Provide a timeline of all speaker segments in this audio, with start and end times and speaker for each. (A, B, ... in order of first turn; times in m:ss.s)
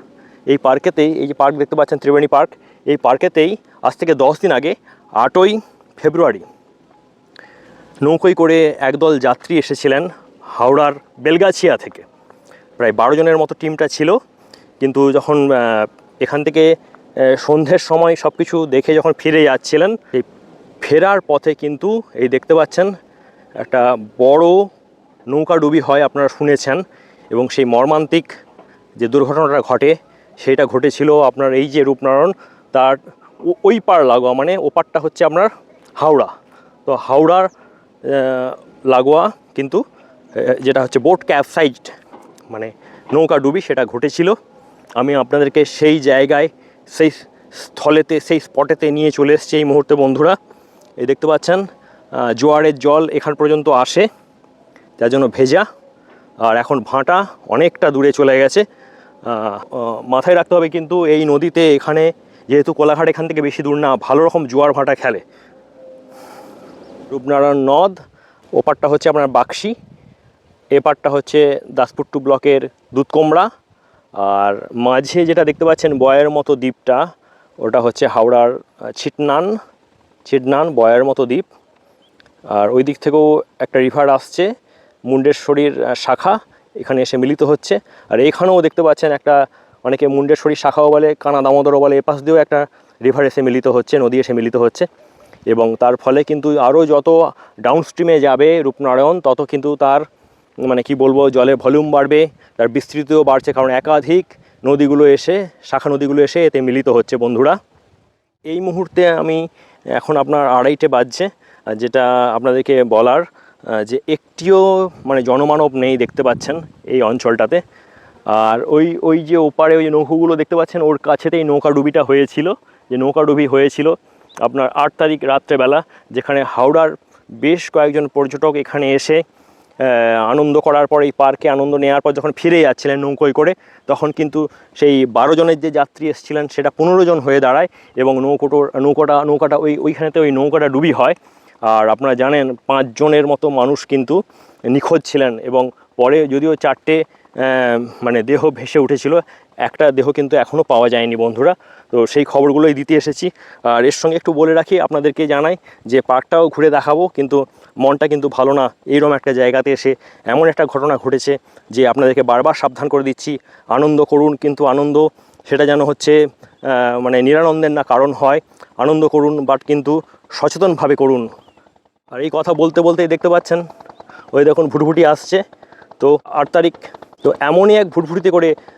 0:00.5-0:06.4 A
0:08.0-0:12.0 A
0:12.8-0:14.2 A
0:14.8-0:16.7 A
0:17.3-0:20.3 A
0:20.8-0:22.9 A
0:23.6-0:24.6 A
0:25.3-0:28.3 A
0:29.0-0:36.3 A
0:36.9-0:37.5 A
0:38.0-0:39.8 A
0:40.4-0:41.9 A
0:42.5-0:44.4 A
0:45.0-0:50.4 A
0:51.0-0:51.6 A
0:52.2-0:54.1 A
0:55.0-0:55.6 A
0:56.4-0:58.6 A
0:59.3-1:05.2 A
1:07.1-1:08.0 A
1:08.6-1:09.8 A
1:10.7-1:13.5 A
1:14.2-1:17.0 A
1:17.6-1:19.6 A
1:20.2-1:21.4 A
1:22.5-1:24.5 A
1:25.1-1:34.9 A
1:35.5-1:40.0 A
1:40.6-1:47.6 A
1:48.5-1:57.6 A
1:58.3-2:09.2 A
2:09.8-2:51.3 A
2:52.1-2:53.6 A
2:54.3-2:55.4 A
2:56.0-2:58.5 A